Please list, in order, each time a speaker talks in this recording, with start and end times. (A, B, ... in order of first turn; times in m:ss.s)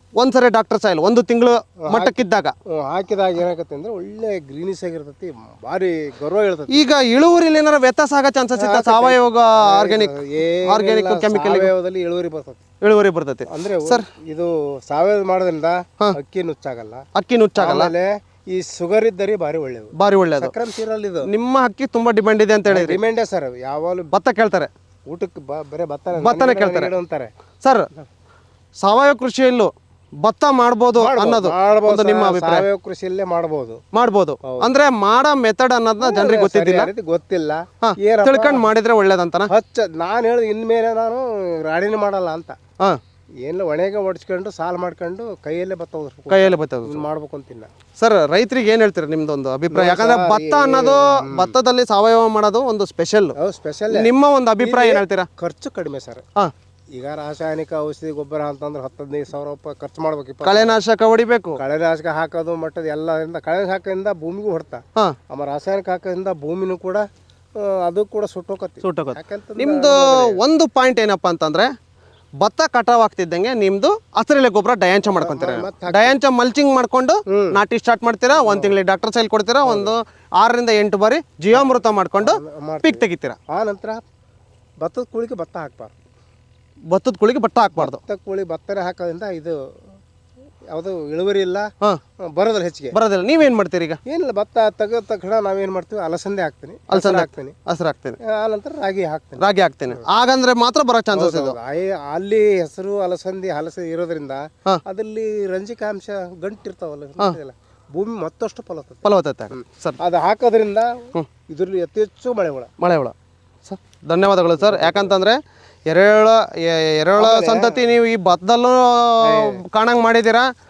0:00.2-0:02.5 A
0:01.8-0:06.8 B
0:06.7-0:10.1 A
0:08.6-0:12.6 B
0:10.6-0:11.7 A
0:12.8-0:14.0 A
0:13.5-0:17.0 B
0:17.1-0:17.9 A
0:17.6-0:21.3 B
0:20.0-0:20.5 A
0:21.3-0:23.0 A
0:22.7-0:24.1 B
0:24.1-0:24.7 A
0:25.1-0:27.3 B
0:26.2-0:26.9 A
0:27.6-0:27.9 A
0:28.8-0:29.7 A
0:30.2-0:32.6 A
0:31.0-0:33.8 B
0:33.9-0:36.9 A
0:34.4-0:34.7 B
0:36.0-0:38.7 B
0:37.8-0:39.5 A
0:39.5-0:42.6 B
0:43.4-0:47.7 B
0:46.3-0:47.0 A
0:48.0-0:53.4 A
0:49.7-0:51.6 B
0:53.4-0:56.2 B
0:53.9-0:55.3 A
0:56.9-1:00.8 B
1:00.4-1:01.6 A
1:01.6-1:07.0 B
1:07.6-1:10.4 B
1:08.8-1:11.7 A
1:12.4-1:23.4 A
1:15.1-1:16.2 B
1:17.3-1:17.6 B
1:18.4-1:18.8 B
1:19.6-1:19.9 B
1:21.5-1:24.0 B
1:24.8-1:25.9 B
1:26.9-1:28.0 A
1:27.8-1:29.6 B
1:30.7-1:31.7 B
1:32.3-1:33.0 B
1:32.9-1:34.0 A
1:34.1-1:37.5 B
1:36.9-1:38.2 A
1:38.2-1:40.0 B
1:39.4-1:41.6 A
1:41.1-1:52.7 B
1:49.0-1:50.0 A
1:52.8-1:53.1 A
1:53.6-1:55.4 A
1:54.6-1:55.2 B
1:55.9-2:00.5 A
1:57.2-1:57.8 B
1:59.2-1:59.6 B